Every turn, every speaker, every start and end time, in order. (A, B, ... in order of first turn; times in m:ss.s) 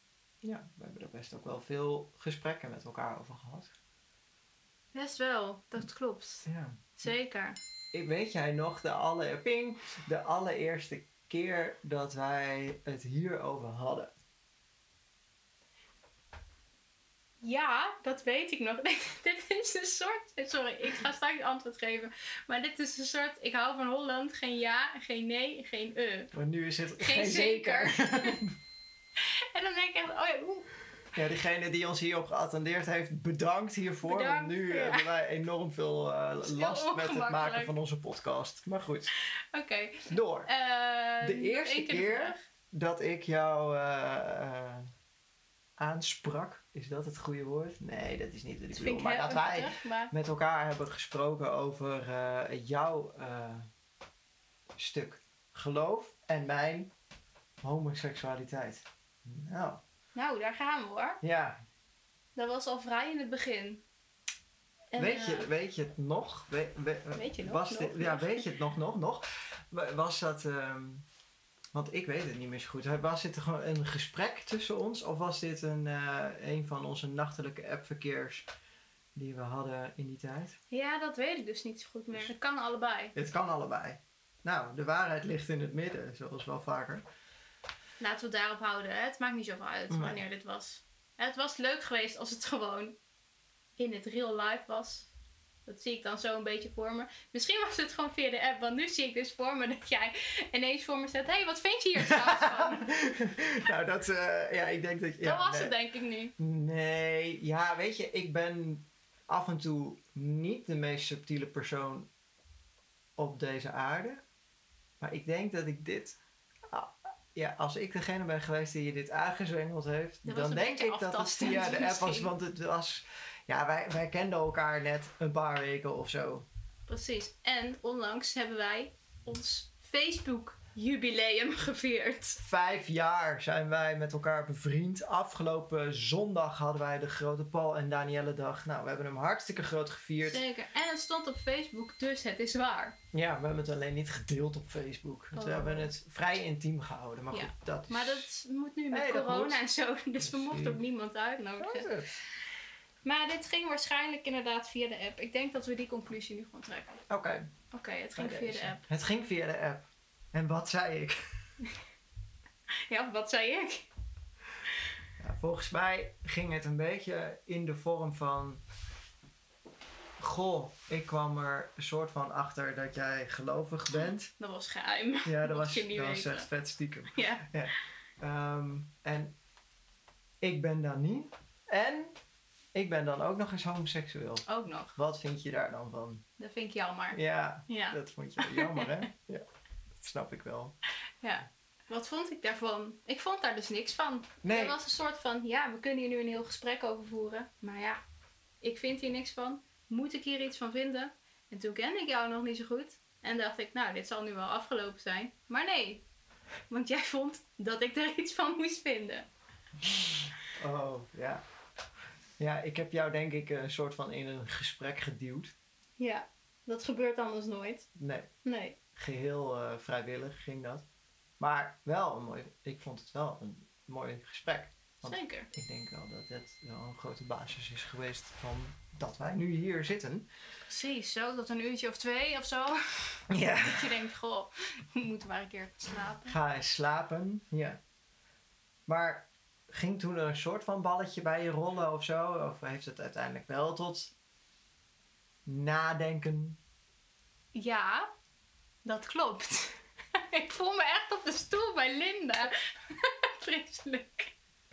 0:00.4-0:03.7 A
0:04.9-0:06.5 B
0:06.4-0:07.1 A
0:07.0-0:07.6 B
0:07.9-0:14.1 A
0:17.4-0:26.3 B
0:26.3-0:28.6 A
0:27.0-0:28.4 B
0:29.2-0:30.7 B
0:31.1-0:39.1 A
0:34.0-0:35.1 B
0:36.4-0:37.7 B
0:39.5-0:42.4 B
0:40.1-0:40.5 A
0:41.2-0:44.9 A
0:45.8-0:53.7 A
0:48.7-0:50.1 B
0:54.8-0:56.9 A
0:57.6-0:59.8 A
1:00.1-1:01.2 B
1:01.2-1:01.6 A
1:02.4-1:03.8 B
1:04.9-1:05.5 B
1:05.0-1:11.0 A
1:07.1-1:08.5 B
1:11.7-1:18.5 A
1:19.1-1:20.6 A
1:20.7-1:23.1 B
1:23.1-1:27.0 A
1:28.0-1:33.0 B
1:29.9-1:30.2 A
1:33.8-1:35.1 B
1:35.6-1:42.9 B
1:42.0-1:45.7 A
1:45.2-1:46.3 B
1:46.4-1:52.1 A
1:53.2-1:54.2 A
1:55.0-1:56.2 A
1:56.7-2:06.5 A
2:00.2-2:02.3 B
2:06.9-2:12.4 B
2:12.4-2:20.4 A
2:20.2-2:23.0 B
2:23.1-2:28.3 A
2:25.3-2:25.9 B
2:27.3-2:31.9 B
2:28.9-2:29.6 A
2:30.2-2:30.8 A
2:31.6-2:32.1 A
2:33.0-2:37.0 B
2:37.1-2:37.5 A
2:37.7-2:38.8 B
2:38.2-2:41.2 A
2:42.9-2:43.9 B
2:45.2-2:48.6 A
2:50.2-2:54.3 A
2:53.9-2:56.5 B
2:55.2-2:59.3 A
2:57.1-2:57.5 B
3:00.4-3:02.1 A
3:02.7-3:04.4 A
3:04.4-3:05.0 B
3:05.0-3:06.2 A
3:06.4-3:09.0 B
3:07.1-3:10.8 A
3:11.2-3:18.0 B
3:14.4-3:14.8 A
3:18.6-3:26.0 B
3:26.7-3:29.3 B
3:30.5-3:31.4 A
3:32.4-3:35.5 A
3:36.0-3:37.9 B
3:38.0-3:38.3 A
3:38.4-3:38.8 B
3:38.9-3:40.8 A
3:41.4-3:50.3 A
3:45.0-3:45.5 B
3:50.6-3:56.3 B
3:53.3-3:54.0 A
3:56.2-3:57.8 A
3:58.9-4:04.1 A
4:05.4-4:06.6 A
4:07.5-4:08.1 B
4:08.8-4:14.3 B